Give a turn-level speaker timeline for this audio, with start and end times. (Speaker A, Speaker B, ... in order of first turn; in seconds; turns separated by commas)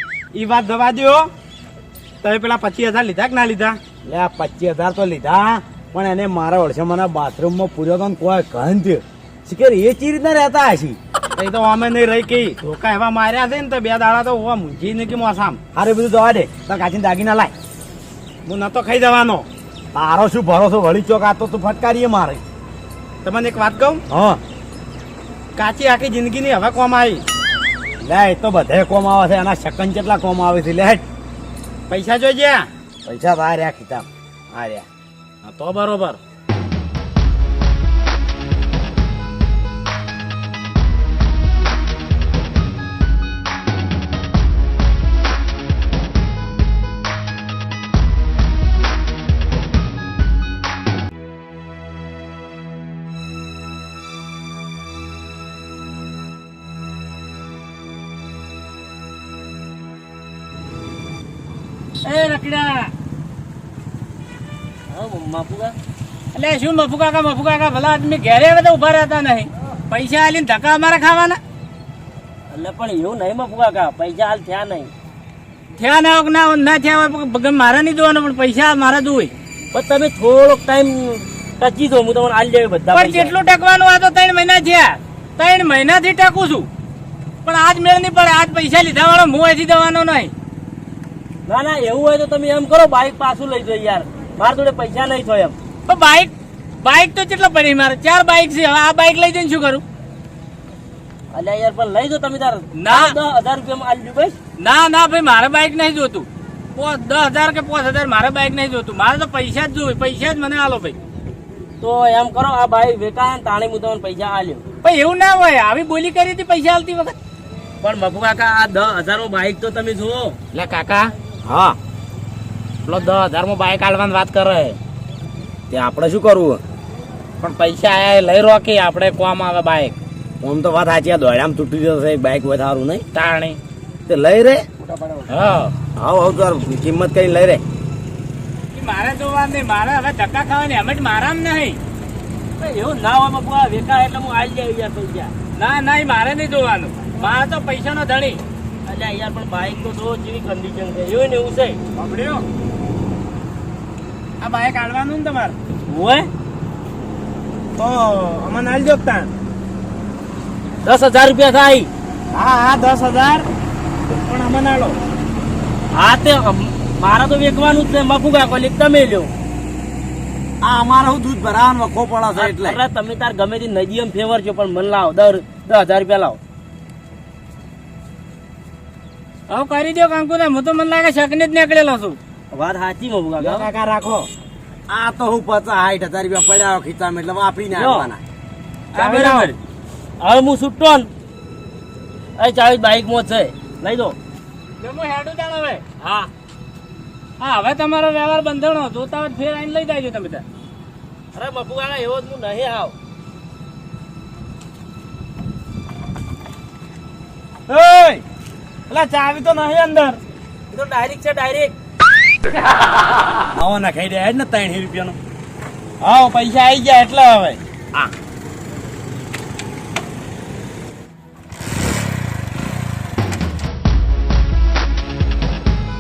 Speaker A: 0.3-1.3, Speaker A: 2.2-3.8, Speaker B: 4.0-11.0, Speaker A: 11.4-15.6, Speaker B: 15.7-17.5, Speaker A: 18.5-19.5, Speaker B: 19.9-22.4, Speaker A: 23.2-24.0, Speaker B: 24.1-24.4, Speaker A: 25.6-27.2, Speaker B: 28.0-31.0, Speaker A: 31.9-32.7, Speaker B: 33.0-34.9, Speaker A: 35.4-36.2, Speaker C: 62.0-62.9, Speaker D: 64.9-65.8, Speaker C: 66.3-71.4, Speaker D: 72.5-74.9, Speaker C: 75.8-79.3, Speaker D: 79.7-83.4, Speaker C: 82.9-86.7, Speaker C: 87.5-90.3, Speaker D: 91.5-95.6, Speaker C: 95.9-99.8, Speaker D: 101.3-104.4, Speaker C: 102.8-103.2, Speaker C: 104.6-111.0, Speaker D: 111.8-114.6, Speaker C: 114.8-117.2, Speaker D: 117.8-120.4, Speaker A: 120.5-121.1, Speaker B: 121.5-121.8, Speaker A: 122.9-124.8, Speaker B: 125.7-126.6, Speaker A: 127.4-129.9, Speaker B: 130.4-133.1, Speaker A: 133.1-133.6, Speaker B: 134.1-134.7, Speaker D: 134.8-135.3, Speaker A: 135.3-135.7, Speaker B: 135.9-137.6, Speaker C: 138.7-141.8, Speaker D: 142.6-145.3, Speaker C: 145.5-148.4, Speaker D: 148.9-151.8, Speaker A: 152.0-152.4, Speaker A: 154.4-155.6, Speaker D: 155.9-156.3, Speaker A: 157.8-159.3, Speaker D: 160.8-161.9, Speaker A: 162.3-163.5, Speaker A: 164.1-165.0, Speaker D: 165.9-169.3, Speaker B: 170.6-172.8, Speaker D: 172.3-176.4, Speaker C: 179.5-182.2, Speaker D: 182.5-183.7, Speaker A: 183.4-184.3, Speaker B: 184.9-188.2, Speaker D: 187.8-188.1, Speaker D: 188.9-189.5, Speaker C: 189.0-189.5, Speaker D: 190.2-191.1, Speaker D: 192.4-194.2, Speaker C: 194.8-195.8, Speaker D: 196.0-196.3, Speaker C: 197.4-200.4, Speaker D: 201.3-202.9, Speaker A: 207.7-208.2, Speaker A: 208.9-210.2, Speaker D: 210.7-211.8, Speaker B: 213.6-215.2, Speaker A: 216.0-217.6